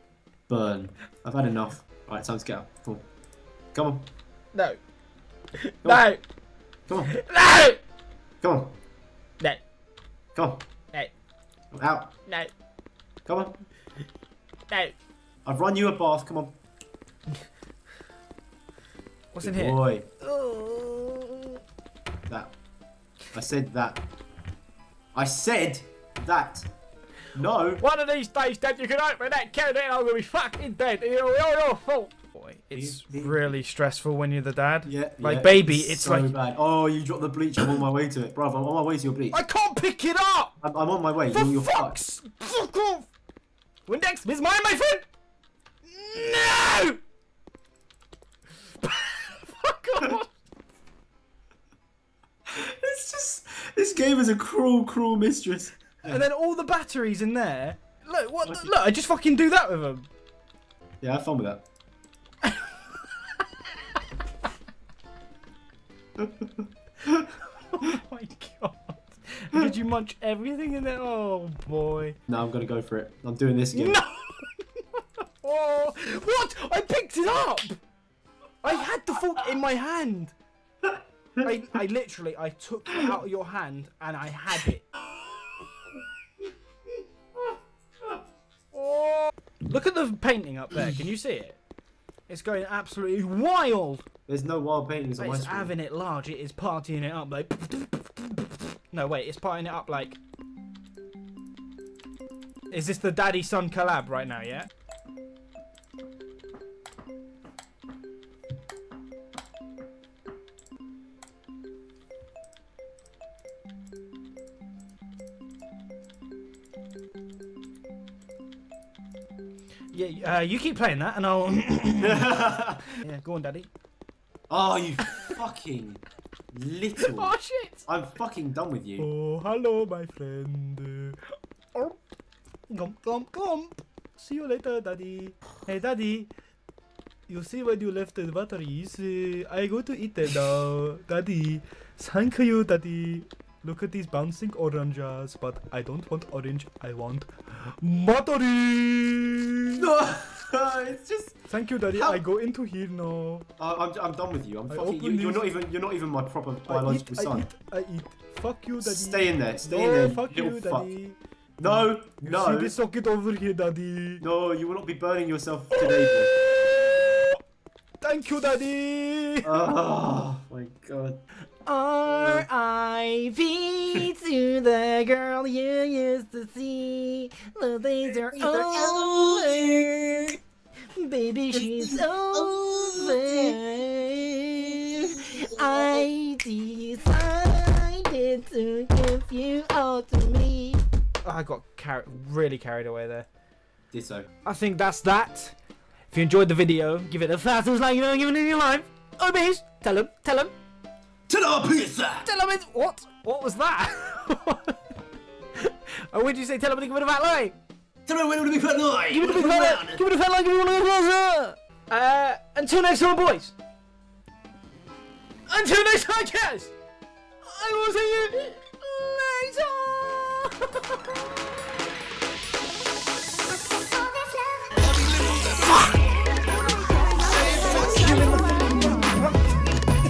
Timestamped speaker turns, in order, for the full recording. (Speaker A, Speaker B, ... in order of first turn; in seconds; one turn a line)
Speaker A: 0.5-3.0
Speaker A: 3.7-4.1
Speaker B: 4.5-4.8
Speaker B: 5.6-6.2
Speaker A: 6.9-7.1
Speaker B: 7.0-7.8
Speaker A: 8.4-8.7
Speaker A: 10.3-10.6
Speaker A: 11.7-12.1
Speaker B: 12.2-12.5
Speaker A: 13.2-13.6
Speaker B: 14.7-14.9
Speaker A: 15.4-16.6
Speaker B: 19.3-21.6
Speaker A: 19.4-20.1
Speaker A: 22.3-22.5
Speaker A: 23.3-24.0
Speaker A: 25.1-26.7
Speaker A: 27.3-27.8
Speaker B: 27.8-36.3
Speaker A: 32.7-33.5
Speaker A: 34.9-39.4
Speaker B: 39.3-40.5
Speaker A: 40.6-42.0
Speaker B: 41.3-43.1
Speaker B: 43.9-45.0
Speaker B: 45.8-47.0
Speaker B: 48.8-50.3
Speaker A: 52.5-56.2
Speaker B: 56.0-60.1
Speaker A: 58.4-58.7
Speaker A: 61.0-61.6
Speaker B: 62.4-62.7
Speaker A: 66.2-66.4
Speaker B: 67.2-72.2
Speaker A: 72.3-74.0
Speaker B: 73.7-77.8
Speaker B: 78.6-80.3
Speaker B: 81.4-84.9
Speaker B: 88.7-91.6
Speaker B: 92.3-94.0
Speaker A: 94.3-95.7
Speaker B: 95.2-100.2
Speaker B: 102.7-104.7
Speaker B: 119.9-123.7
Speaker A: 122.0-122.8
Speaker A: 124.5-127.3
Speaker B: 125.0-125.4
Speaker B: 127.0-127.8
Speaker A: 127.9-129.1
Speaker B: 129.0-132.0
Speaker B: 132.7-136.3
Speaker B: 137.3-149.8
Speaker A: 149.8-151.4
Speaker B: 151.5-153.5
Speaker A: 151.9-152.2
Speaker A: 153.6-157.4
Speaker B: 154.7-155.5
Speaker B: 156.7-164.2
Speaker A: 158.8-160.9
Speaker A: 161.6-162.7
Speaker A: 164.2-166.3
Speaker B: 166.5-167.4
Speaker B: 168.0-169.7
Speaker A: 169.4-171.2
Speaker B: 171.7-180.2
Speaker A: 172.2-172.4
Speaker A: 178.2-179.5
Speaker B: 180.9-193.3
Speaker A: 181.5-183.5
Speaker A: 185.6-186.0
Speaker A: 193.9-194.3
Speaker B: 194.4-195.6
Speaker B: 196.1-200.5
Speaker A: 201.3-202.2
Speaker B: 202.2-204.8
Speaker B: 205.6-207.6
Speaker A: 208.1-210.0
Speaker B: 209.1-213.5
Speaker B: 215.5-216.7
Speaker B: 217.4-221.2
Speaker B: 225.6-225.9
Speaker B: 227.4-229.7